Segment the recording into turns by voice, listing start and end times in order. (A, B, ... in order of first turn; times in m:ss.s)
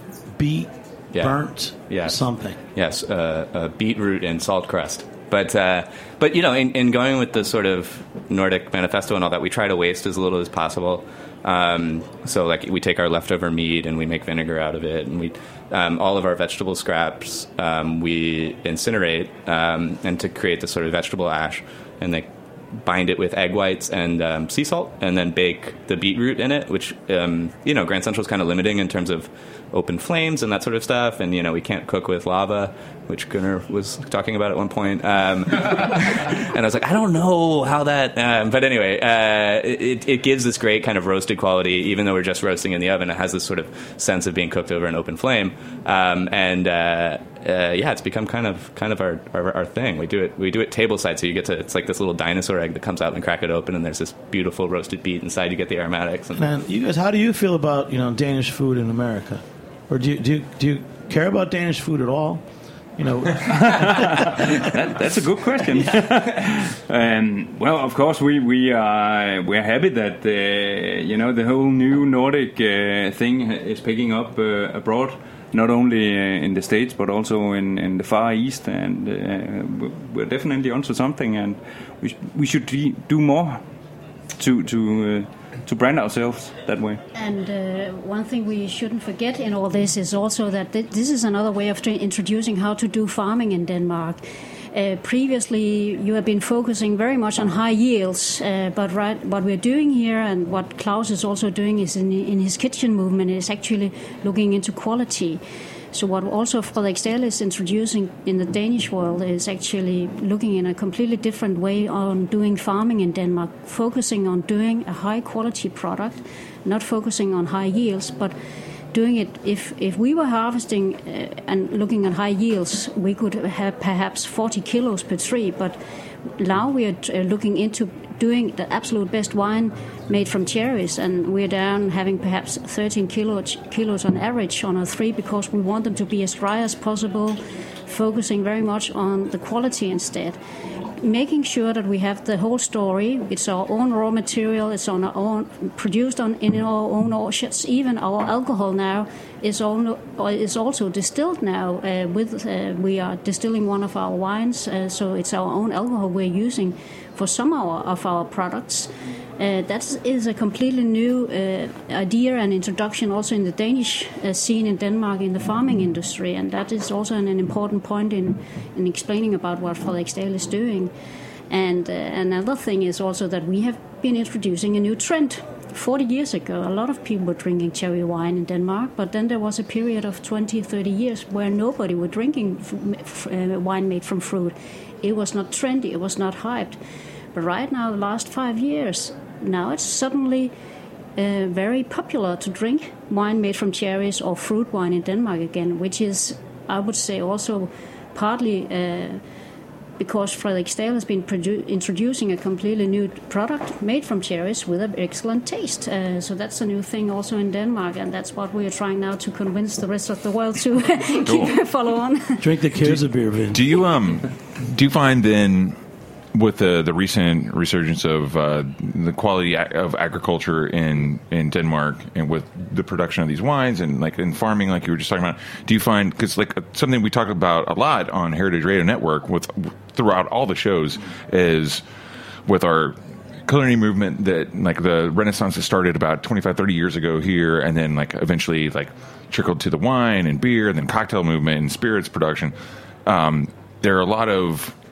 0:00.3-0:02.6 A
0:01.1-0:01.4 B
0:01.9-0:02.2 B
0:02.7-0:56.5 B
0:56.3-1:02.4 A
1:03.0-1:04.7 A
1:03.5-1:23.6 C
1:05.7-1:06.0 A
1:24.4-1:27.0 C
1:27.1-1:34.2 D
1:34.7-1:45.4 D
1:45.9-1:58.3 D
1:58.9-2:05.8 D
2:06.4-2:20.4 D
2:21.0-2:50.9 D
2:51.5-3:06.8 D
3:07.3-3:10.5 D
3:11.2-3:19.2 D
3:20.0-3:32.5 D
3:31.2-3:31.5 E
3:32.4-3:33.6 A
3:32.8-3:35.8 E
3:36.3-3:51.8 E
3:52.5-4:02.5 E
4:03.0-4:04.7 E